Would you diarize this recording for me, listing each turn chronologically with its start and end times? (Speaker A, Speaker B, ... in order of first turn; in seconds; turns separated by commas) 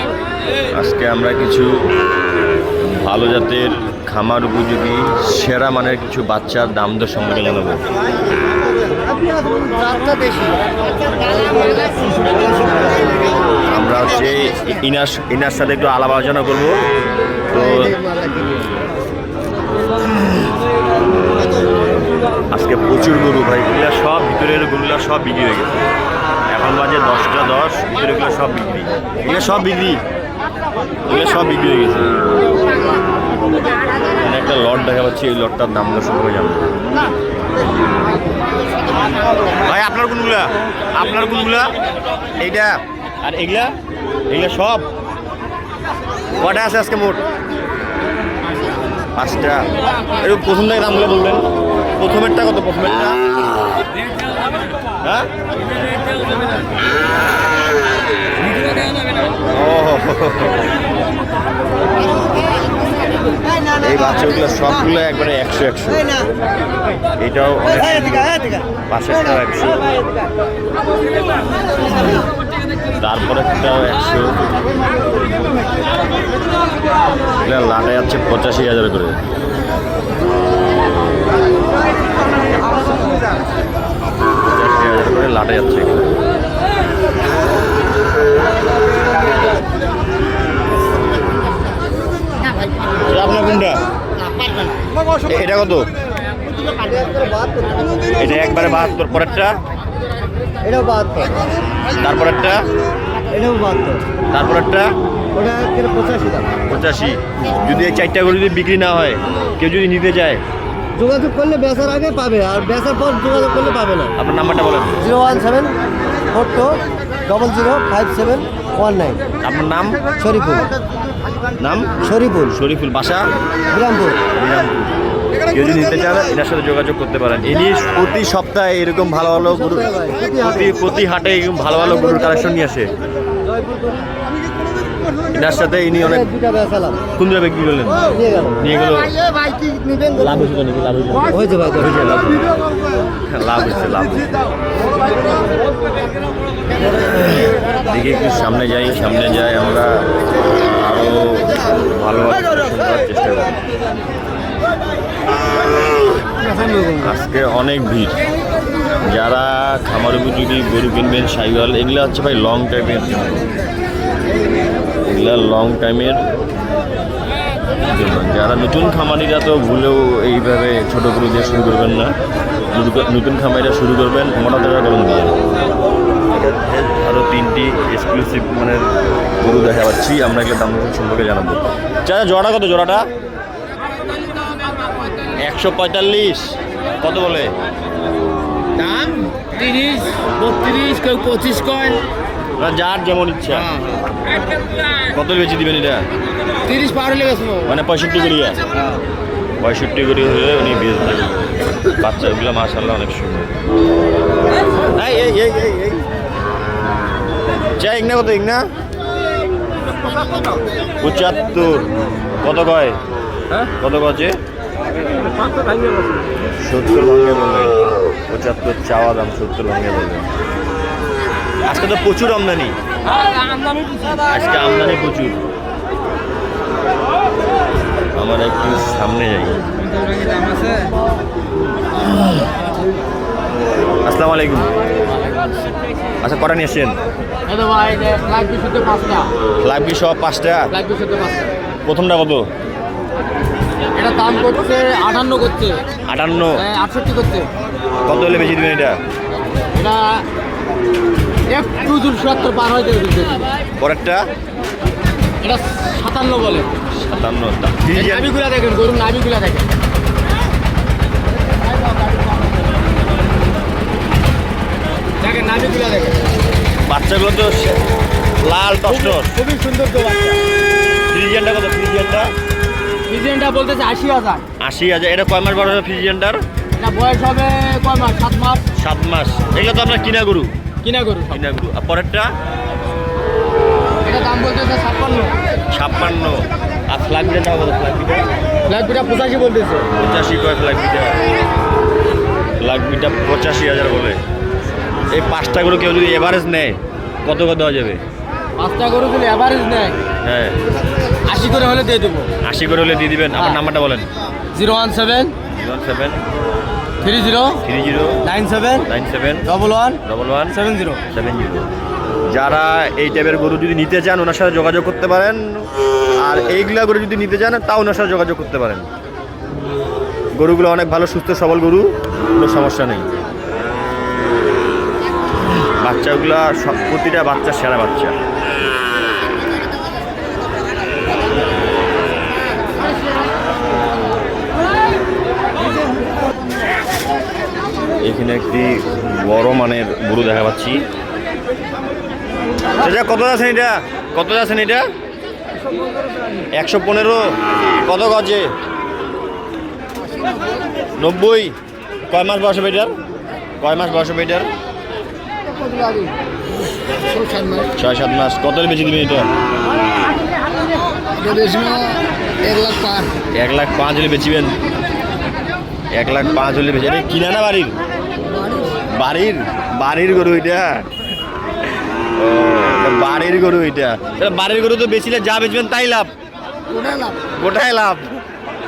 Speaker A: 0.7-1.8, Speaker A: 2.8-7.8, Speaker B: 9.1-10.6, Speaker B: 11.2-12.8, Speaker A: 13.7-16.8, Speaker A: 17.5-18.0, Speaker B: 17.8-18.4, Speaker A: 22.5-25.8, Speaker A: 26.5-30.0, Speaker A: 31.1-32.2, Speaker A: 34.2-36.7, Speaker A: 39.6-41.7, Speaker A: 42.4-43.7, Speaker A: 44.3-44.9, Speaker A: 46.4-47.2, Speaker A: 49.1-53.2, Speaker A: 55.0-55.3, Speaker A: 59.5-60.7, Speaker A: 63.8-66.1, Speaker A: 67.2-69.8, Speaker A: 73.0-74.4, Speaker A: 77.4-79.2, Speaker A: 84.5-86.2, Speaker A: 93.0-93.8, Speaker A: 95.2-95.9, Speaker B: 96.7-98.0, Speaker A: 98.2-99.6, Speaker B: 100.6-101.4, Speaker A: 102.0-102.6, Speaker B: 103.3-104.0, Speaker A: 104.3-104.9, Speaker B: 105.3-106.5, Speaker A: 106.7-110.4, Speaker B: 111.0-114.1, Speaker A: 114.2-115.0, Speaker B: 115.0-115.8, Speaker B: 116.3-119.2, Speaker A: 119.4-120.0, Speaker B: 120.2-120.7, Speaker A: 121.6-123.3, Speaker B: 122.0-122.5, Speaker B: 123.7-124.2, Speaker A: 124.3-124.9, Speaker A: 125.5-132.9, Speaker B: 129.9-130.3, Speaker A: 135.3-136.3, Speaker B: 136.3-137.0, Speaker A: 137.2-139.2, Speaker A: 140.1-142.4, Speaker B: 141.3-141.8, Speaker A: 143.3-144.5, Speaker A: 147.8-153.6, Speaker A: 156.9-158.2, Speaker A: 159.0-163.5, Speaker A: 165.1-166.2, Speaker A: 167.8-172.2, Speaker A: 172.7-175.4, Speaker A: 176.3-183.1, Speaker A: 185.4-187.5, Speaker C: 188.8-192.0, Speaker A: 192.6-193.7, Speaker C: 193.5-194.5, Speaker A: 195.0-196.1, Speaker C: 196.7-197.7, Speaker A: 197.6-198.6, Speaker A: 199.6-203.5, Speaker A: 204.9-206.1, Speaker A: 207.8-208.7, Speaker A: 211.0-211.9, Speaker A: 212.4-213.0, Speaker A: 213.6-214.4, Speaker A: 216.6-220.3, Speaker A: 221.7-222.8, Speaker C: 223.2-224.2, Speaker A: 224.3-225.4, Speaker A: 228.2-229.6, Speaker C: 230.2-230.9, Speaker A: 234.1-234.7, Speaker A: 236.2-237.0, Speaker C: 237.5-239.3, Speaker A: 239.6-240.7, Speaker C: 240.7-241.5, Speaker A: 241.8-242.4, Speaker C: 243.9-245.8, Speaker A: 246.1-246.6, Speaker C: 246.6-247.5, Speaker A: 248.1-249.0, Speaker C: 249.8-250.2, Speaker C: 251.5-253.5, Speaker A: 253.8-254.2, Speaker C: 255.4-256.7, Speaker A: 256.9-258.3, Speaker C: 257.9-259.7, Speaker C: 265.2-266.2, Speaker A: 266.8-267.8, Speaker A: 268.4-269.4, Speaker C: 268.9-270.4, Speaker A: 271.1-272.3, Speaker C: 273.1-274.4, Speaker A: 274.6-276.4, Speaker C: 276.8-278.6, Speaker A: 278.8-280.5, Speaker C: 280.8-281.4, Speaker A: 281.3-282.3, Speaker C: 284.0-285.3, Speaker A: 285.7-288.3, Speaker C: 288.6-289.8, Speaker A: 289.9-291.2, Speaker A: 292.6-294.2, Speaker A: 295.1-298.0, Speaker C: 298.6-300.0, Speaker A: 300.2-300.6, Speaker C: 301.2-302.3, Speaker A: 302.4-304.1, Speaker C: 304.5-305.3, Speaker A: 305.5-306.2, Speaker C: 307.0-307.6, Speaker A: 307.6-308.2, Speaker C: 308.2-308.9, Speaker A: 308.8-309.5, Speaker C: 309.4-310.0, Speaker A: 310.0-311.7, Speaker C: 310.5-311.0, Speaker A: 312.3-318.9, Speaker A: 320.4-323.1, Speaker A: 325.7-328.1, Speaker A: 338.0-340.8, Speaker A: 342.8-344.9, Speaker A: 346.5-348.5, Speaker C: 350.2-350.4, Speaker A: 351.0-351.5, Speaker A: 352.1-352.9, Speaker A: 353.6-354.5, Speaker C: 355.7-356.1, Speaker C: 357.1-357.7, Speaker A: 357.7-359.3, Speaker C: 361.2-363.1, Speaker A: 363.3-364.6, Speaker A: 365.9-367.8, Speaker A: 368.8-370.8, Speaker A: 372.1-376.1, Speaker A: 377.3-378.1